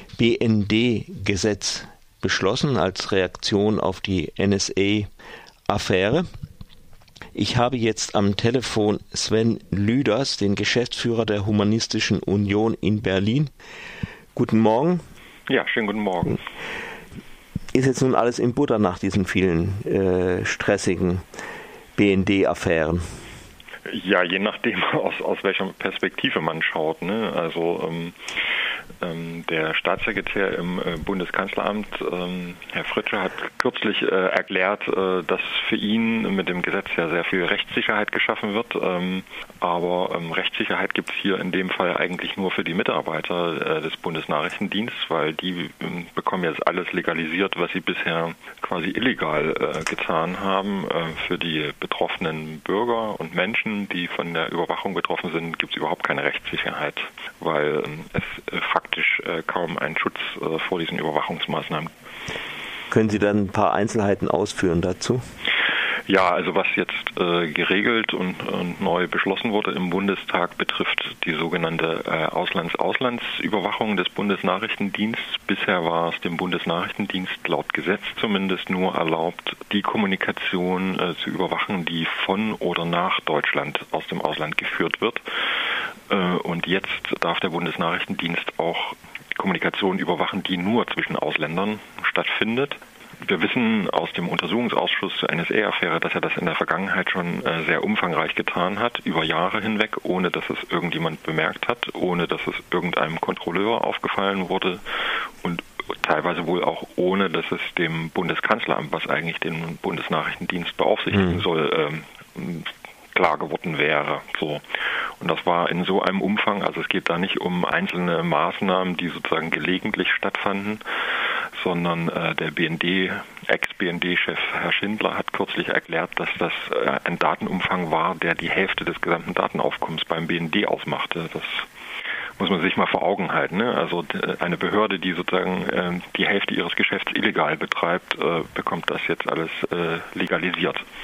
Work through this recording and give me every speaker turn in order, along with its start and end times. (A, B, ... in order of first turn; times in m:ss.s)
0:00.2-0:05.1 A
0:05.7-0:06.3 A
0:07.3-0:13.5 A
0:14.4-0:15.0 A
0:15.5-0:16.4 B
0:17.7-0:21.2 A
0:22.0-0:23.0 A
0:23.9-0:28.2 B
0:29.0-1:01.9 B
1:02.9-1:05.2 A
1:06.1-1:25.2 B
1:26.1-1:54.6 B
1:55.2-2:11.7 B
2:12.4-2:20.8 B